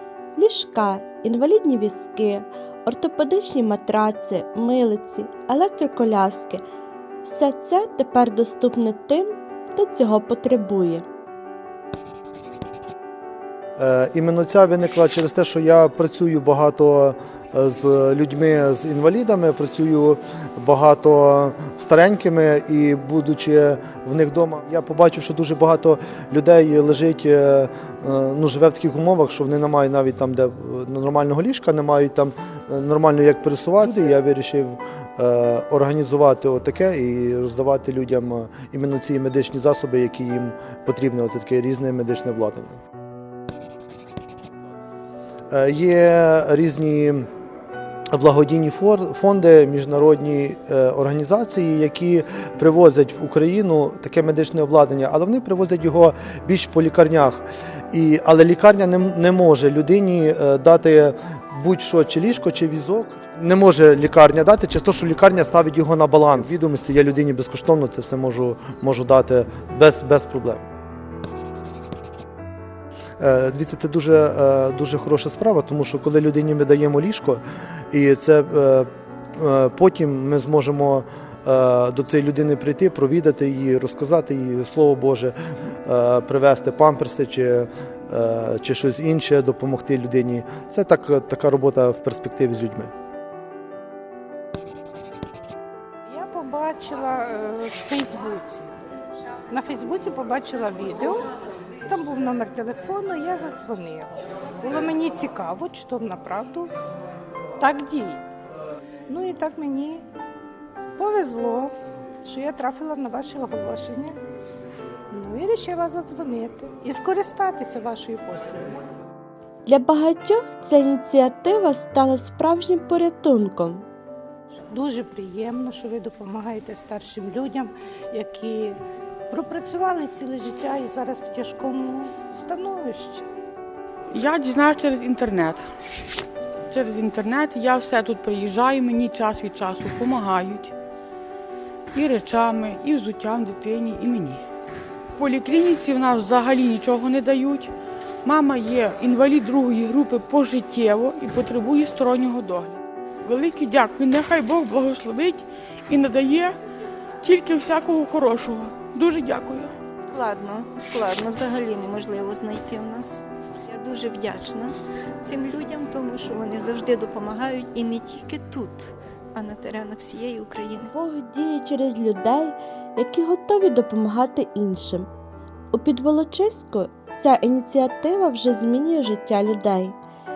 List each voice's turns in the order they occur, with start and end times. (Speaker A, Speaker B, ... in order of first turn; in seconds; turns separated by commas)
Speaker A: 0.4-6.6, Speaker A: 7.2-11.1, Speaker B: 13.8-42.8, Speaker B: 45.5-47.3, Speaker B: 48.1-70.6, Speaker B: 73.2-92.9, Speaker C: 96.1-98.8, Speaker C: 99.5-101.3, Speaker C: 101.9-106.7, Speaker C: 107.6-108.2, Speaker C: 109.1-110.0, Speaker C: 111.0-114.2, Speaker C: 115.1-118.8, Speaker A: 119.7-123.9, Speaker C: 124.7-128.8, Speaker C: 129.3-133.3, Speaker D: 134.1-135.7, Speaker D: 136.7-140.8, Speaker D: 141.9-144.4, Speaker D: 145.2-147.7, Speaker D: 148.2-156.6, Speaker D: 157.2-159.7, Speaker E: 160.0-170.9, Speaker A: 170.9-175.1, Speaker A: 175.7-180.0